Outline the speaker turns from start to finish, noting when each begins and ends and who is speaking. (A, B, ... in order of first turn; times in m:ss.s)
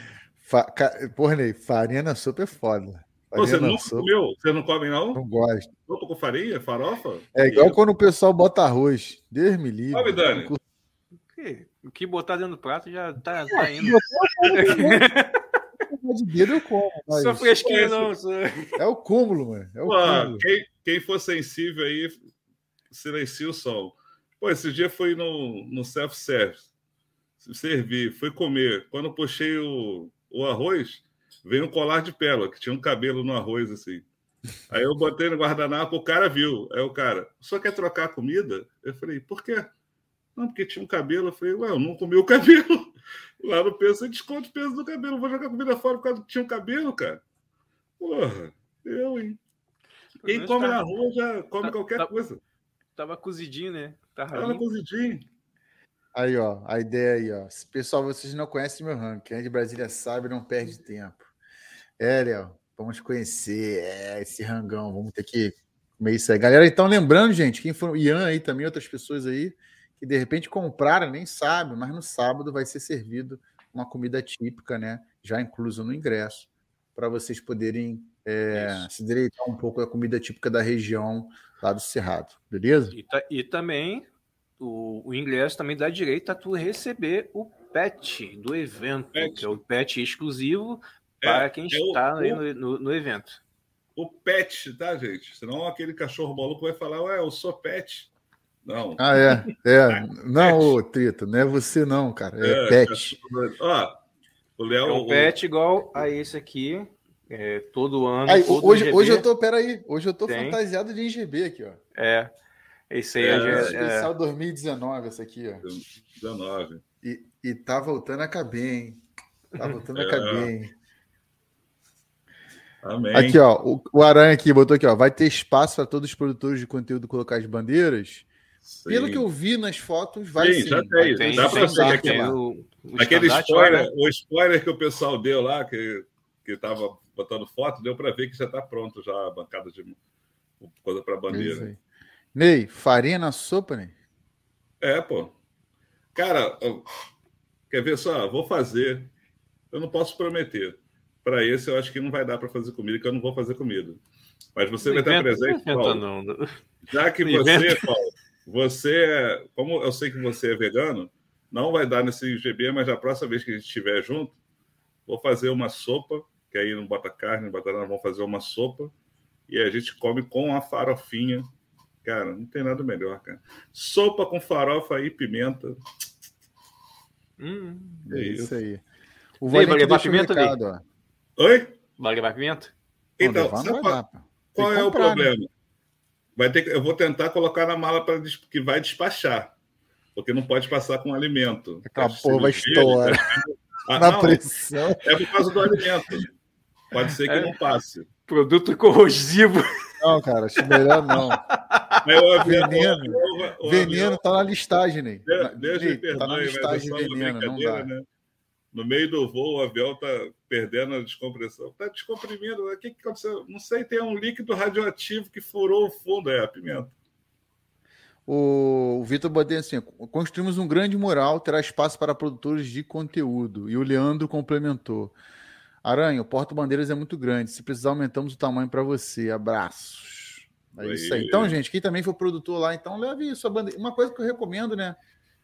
0:00.4-0:04.1 A
0:03.4-0:05.2 B
0:05.2-0:05.7 A
0:05.9-0:07.8 B
0:07.4-0:10.6 A
0:09.9-0:10.5 B
0:11.4-0:15.4 C
0:13.6-0:15.0 A
0:15.9-0:17.5 A
0:17.1-0:18.8 C
0:17.6-0:18.1 B
0:18.8-0:20.4 A
0:19.8-0:22.2 B
0:22.9-0:26.7 B
0:27.4-0:34.0 B
0:34.7-0:39.7 B
0:40.4-0:47.2 B
0:48.0-0:49.4 B
0:50.2-0:50.8 C
0:50.3-0:52.4 B
0:51.6-0:52.1 C
0:53.0-0:54.6 C
0:54.3-0:55.2 B
0:56.1-1:01.3 A
1:02.0-1:23.0 A
1:18.5-1:18.9 C
1:22.9-1:24.1 C
1:24.6-1:33.4 C
1:29.2-1:29.6 B
1:31.2-1:32.4 B
1:34.0-1:38.1 B
1:38.6-1:39.0 B
1:39.0-1:43.2 A
1:39.9-1:40.8 B
1:42.4-1:44.0 B
1:44.6-1:45.3 B
1:44.8-1:49.3 C
1:48.3-1:51.8 A
1:50.3-1:50.6 C
1:52.0-1:52.3 C
1:52.9-1:54.1 C
1:53.2-1:53.7 B
1:53.4-1:55.6 A
1:55.6-1:56.8 B
1:57.0-1:59.0 A
1:59.6-1:59.8 C
1:59.6-2:00.7 A
2:00.0-2:00.5 B
2:02.8-2:03.4 B
2:03.1-2:08.3 A
2:08.6-2:09.3 B
2:08.9-2:12.4 A
2:10.4-2:12.2 B
2:11.1-2:13.9 C
2:13.0-2:20.0 B
2:20.6-2:21.7 B
2:21.3-2:21.8 A
2:22.3-2:23.9 A
2:24.8-2:25.3 B
2:26.2-2:26.9 B
2:27.7-2:29.1 B
2:29.7-2:34.0 B
2:34.6-2:36.0 B
2:34.8-2:36.6 C
2:36.9-2:44.4 B
2:37.2-2:37.9 C
2:45.1-2:48.9 B
2:49.5-2:51.5 B
2:52.0-2:55.8 B
2:57.4-2:58.1 C
2:58.1-2:58.8 A
2:58.1-2:58.6 B
2:59.4-3:00.8 A
2:59.5-3:00.6 C
3:01.4-3:01.8 B
3:02.0-3:02.7 C
3:03.2-3:04.0 B
3:03.2-3:05.3 A
3:04.5-3:05.5 B
3:06.4-3:09.5 B
3:10.2-3:14.4 B
3:11.9-3:13.3 A
3:14.0-3:15.9 A
3:15.0-3:16.3 B
3:16.9-3:18.1 B
3:17.3-3:17.6 C
3:18.3-3:19.7 C
3:20.0-3:21.4 A
3:20.6-3:22.0 C
3:22.0-3:24.2 B
3:22.4-3:27.9 A
3:25.3-3:28.0 B
3:28.7-3:37.0 B
3:38.3-3:45.2 A
3:45.8-3:55.0 A
3:50.8-3:51.6 B